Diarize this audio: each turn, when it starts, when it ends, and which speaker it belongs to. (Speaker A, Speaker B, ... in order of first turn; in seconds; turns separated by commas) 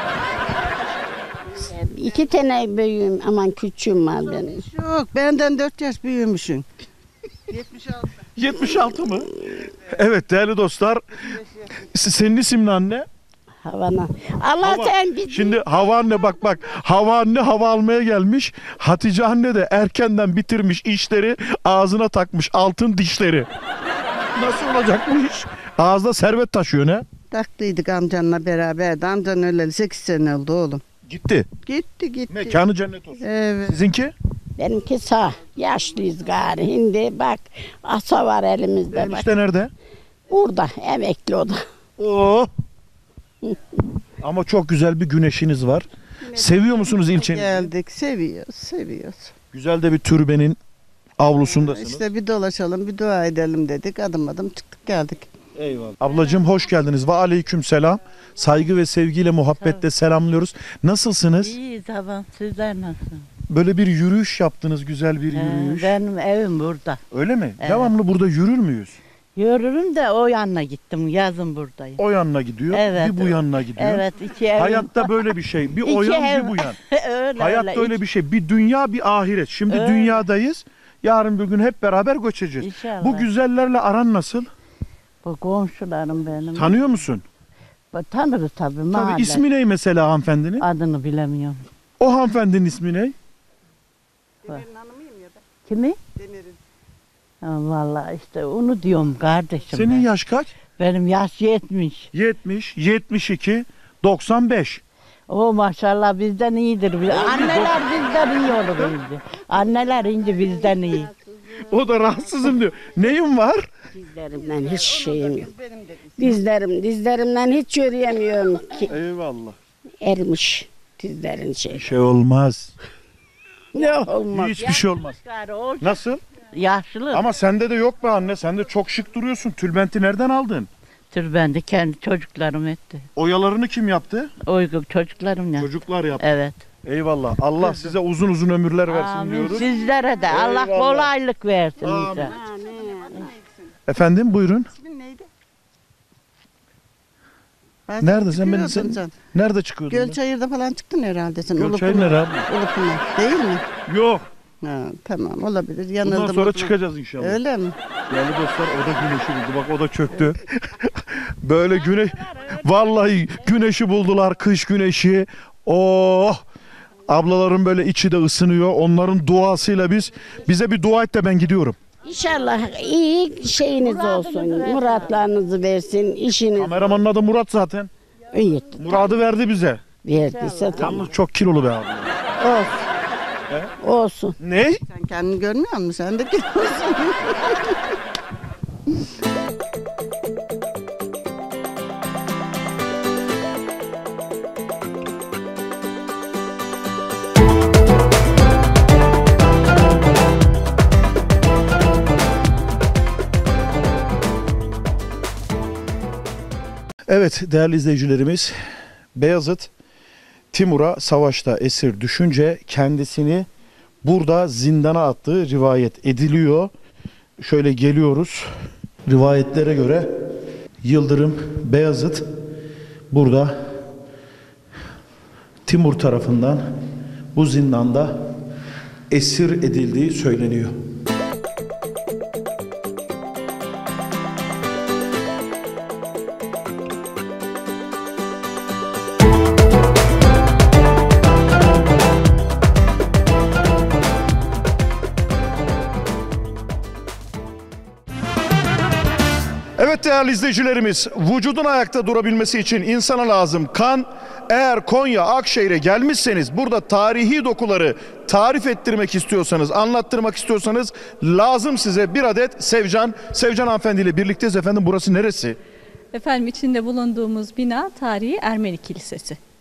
Speaker A: 1.7-4.7, Speaker B: 4.7-6.7, Speaker B: 7.5-8.1, Speaker C: 8.3-9.3, Speaker C: 9.9-13.1, Speaker A: 13.6-15.6, Speaker C: 14.6-23.5, Speaker C: 24.3-27.0, Speaker B: 27.3-30.8, Speaker C: 31.1-31.5, Speaker B: 31.6-32.6, Speaker C: 32.3-34.1, Speaker B: 33.2-33.8, Speaker A: 34.6-39.2, Speaker C: 38.9-39.7, Speaker A: 40.3-41.6, Speaker C: 42.0-42.5, Speaker C: 44.2-47.5, Speaker B: 46.2-49.3, Speaker C: 49.5-50.6, Speaker C: 51.2-52.0, Speaker B: 51.5-55.3, Speaker C: 55.6-61.5, Speaker D: 59.5-59.8, Speaker D: 61.4-63.2, Speaker C: 63.5-66.0, Speaker D: 65.3-67.0, Speaker C: 67.1-69.0, Speaker D: 67.6-67.9, Speaker D: 69.3-72.0, Speaker C: 72.0-76.8, Speaker D: 72.7-78.0, Speaker C: 77.4-84.5, Speaker D: 79.7-80.3, Speaker D: 82.6-83.3, Speaker D: 85.2-86.8, Speaker C: 86.5-87.2, Speaker D: 87.9-89.4, Speaker C: 88.9-90.6, Speaker D: 90.6-91.7, Speaker C: 92.0-93.1, Speaker B: 94.4-95.4, Speaker D: 95.6-96.0, Speaker B: 96.1-96.6, Speaker D: 97.4-100.1, Speaker C: 99.7-100.5, Speaker D: 100.8-102.1, Speaker C: 102.1-104.8, Speaker D: 105.3-111.1, Speaker A: 107.4-108.4, Speaker C: 111.7-113.7, Speaker A: 113.9-115.5, Speaker A: 116.2-118.9, Speaker C: 118.9-119.6, Speaker A: 120.0-121.8, Speaker C: 121.7-122.7, Speaker A: 123.7-124.6, Speaker D: 123.8-126.0, Speaker C: 124.3-125.2, Speaker C: 125.8-126.2, Speaker D: 126.5-127.2, Speaker C: 127.1-130.7, Speaker D: 131.1-133.1, Speaker C: 133.2-134.3, Speaker D: 134.4-136.6, Speaker C: 135.6-136.2, Speaker C: 136.8-139.7, Speaker D: 137.6-137.9, Speaker D: 138.9-142.3, Speaker C: 140.3-141.1, Speaker C: 141.8-142.3, Speaker B: 142.4-143.5, Speaker C: 143.9-144.7, Speaker B: 144.7-145.3, Speaker B: 147.9-149.1, Speaker C: 148.0-150.2, Speaker B: 149.9-153.7, Speaker C: 151.6-152.5, Speaker C: 153.9-154.3, Speaker B: 154.6-157.8, Speaker C: 156.0-157.4, Speaker C: 158.1-160.9, Speaker C: 161.4-166.4, Speaker C: 167.1-171.8, Speaker A: 172.0-176.8, Speaker D: 173.8-175.2, Speaker C: 176.6-177.9, Speaker A: 178.3-178.9, Speaker C: 178.8-179.8, Speaker A: 180.0-181.0, Speaker D: 180.2-181.1, Speaker C: 180.8-182.1, Speaker A: 182.4-182.8, Speaker A: 183.8-184.3, Speaker C: 184.4-184.8, Speaker B: 184.9-187.8, Speaker C: 207.1-208.5, Speaker C: 209.1-209.7, Speaker C: 210.5-213.5, Speaker C: 214.0-216.7, Speaker C: 217.4-218.5, Speaker C: 219.1-220.1, Speaker C: 220.8-222.3, Speaker C: 223.1-223.8, Speaker C: 225.7-226.6, Speaker C: 227.3-228.2, Speaker C: 229.1-230.8, Speaker C: 249.8-265.6, Speaker E: 266.1-269.4